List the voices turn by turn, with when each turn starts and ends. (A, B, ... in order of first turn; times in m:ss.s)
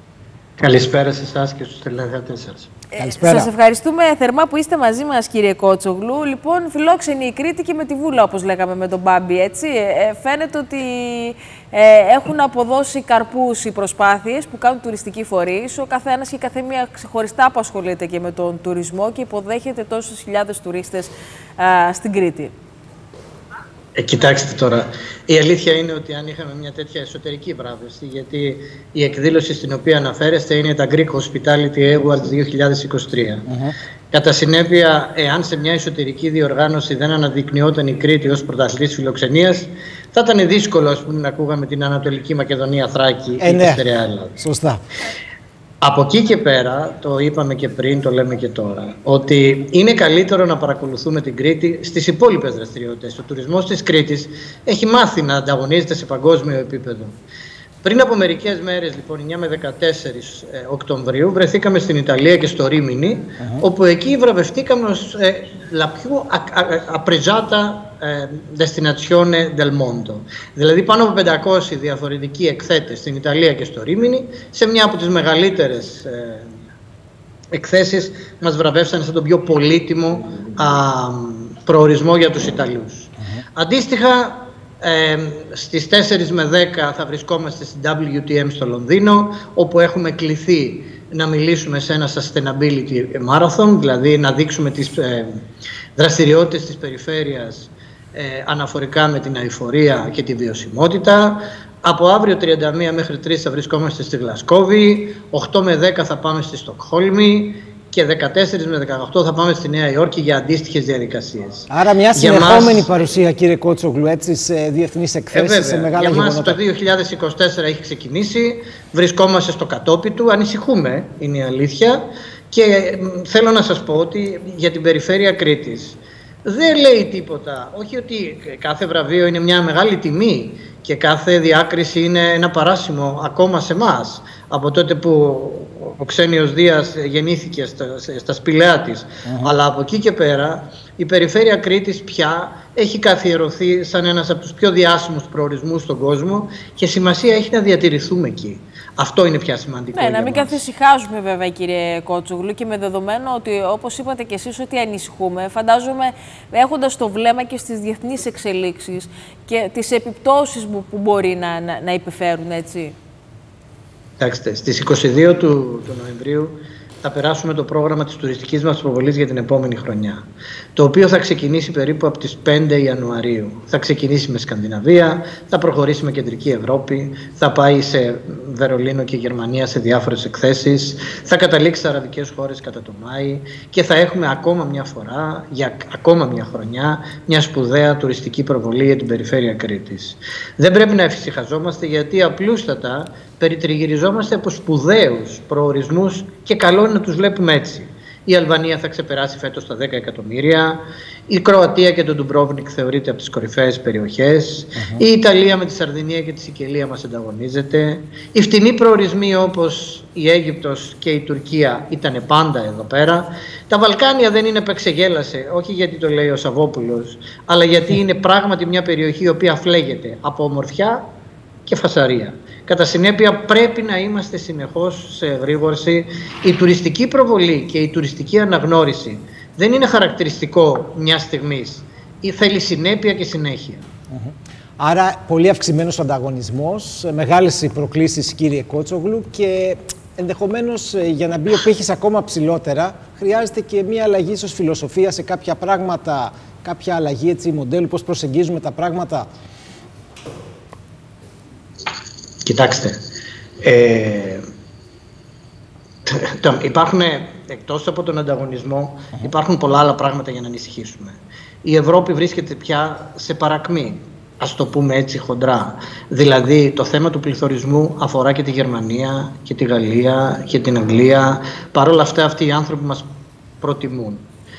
0:00.6-0:02.7 A
0:02.9-0:22.5 B
0:03.0-0:03.5 C
0:24.0-0:33.5 A
0:33.5-0:33.7 C
0:34.1-0:44.4 A
0:43.4-0:43.9 C
0:44.4-0:44.8 C
0:45.8-0:57.2 A
0:57.8-1:16.6 A
1:17.5-1:35.4 A
1:36.0-1:52.9 A
1:51.7-1:56.6 C
1:55.3-2:30.6 A
2:29.9-2:43.0 B
2:44.2-2:50.2 A
2:50.8-3:41.0 A
3:41.7-3:53.9 A
3:54.1-4:09.3 C
4:12.4-4:13.0 A
4:13.6-4:14.4 A
4:16.1-4:33.1 A
4:33.6-4:34.3 A